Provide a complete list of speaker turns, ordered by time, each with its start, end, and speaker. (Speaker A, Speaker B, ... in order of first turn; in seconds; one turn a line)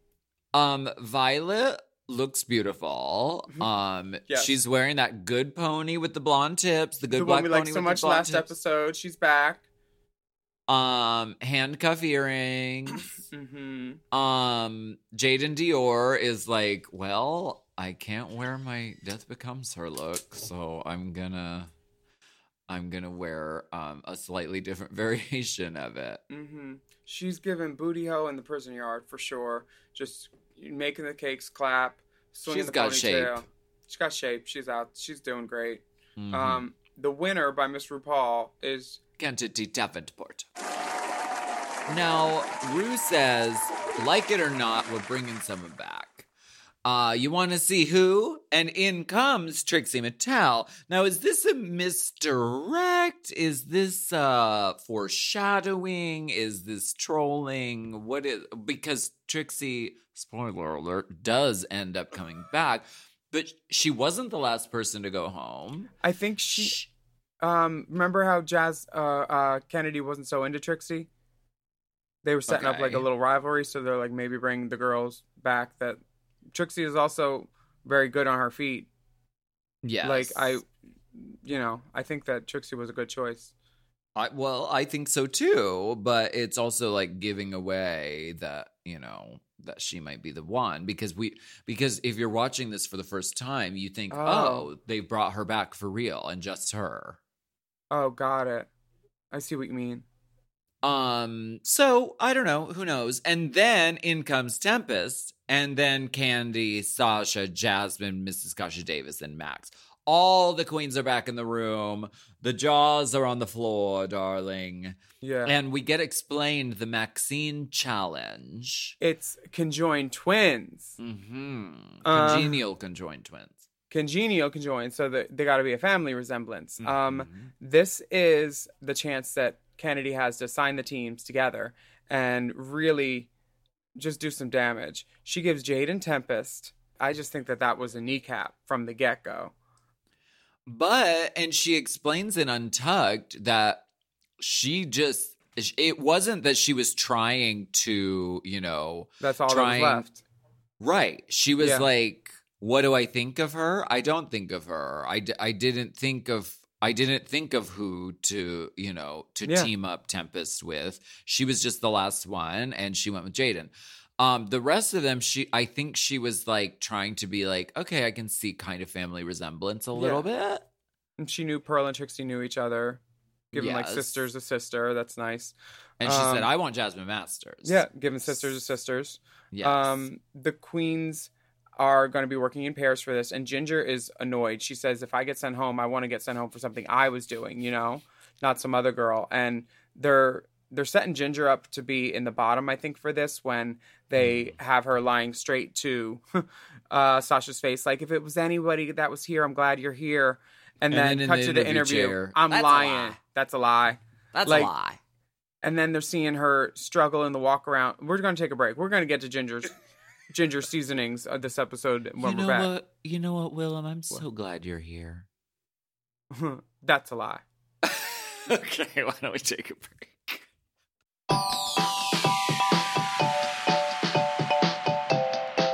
Speaker A: 0.5-8.5
Speaker B: 7.1-9.6
Speaker A: 10.7-13.1
Speaker B: 13.3-14.0
Speaker A: 14.1-21.7
Speaker A: 22.7-26.2
Speaker B: 26.3-39.0
Speaker A: 32.5-33.4
Speaker A: 36.2-36.6
Speaker A: 39.2-40.5
Speaker A: 41.9-46.3
Speaker A: 46.9-65.9
Speaker B: 66.0-66.8
Speaker A: 66.6-66.9
Speaker B: 67.4-71.1
Speaker B: 72.2-76.0
Speaker A: 72.5-73.1
Speaker B: 76.5-78.9
Speaker A: 79.8-80.6
Speaker B: 80.0-83.5
Speaker A: 84.2-97.2
Speaker B: 94.1-94.7
Speaker B: 97.9-98.7
Speaker B: 99.3-100.1
Speaker A: 100.8-118.9
Speaker B: 115.2-115.5
Speaker B: 119.0-121.0
Speaker A: 121.0-123.6
Speaker B: 122.0-122.6
Speaker B: 123.9-133.3
Speaker A: 126.8-127.5
Speaker B: 134.0-139.5
Speaker A: 140.7-143.8
Speaker A: 144.4-150.1
Speaker B: 149.2-150.2
Speaker A: 150.8-170.7
Speaker B: 151.6-151.9
Speaker B: 159.4-159.7
Speaker B: 169.9-170.3
Speaker B: 171.2-173.0
Speaker B: 173.5-176.5
Speaker A: 173.6-174.3
Speaker A: 176.0-178.5
Speaker B: 177.6-204.7
Speaker A: 179.5-180.0
Speaker A: 194.2-194.5
Speaker A: 200.9-203.2
Speaker A: 204.3-205.0
Speaker B: 205.6-209.7
Speaker B: 210.3-212.7
Speaker A: 212.2-215.3
Speaker B: 216.3-217.4
Speaker A: 217.8-220.4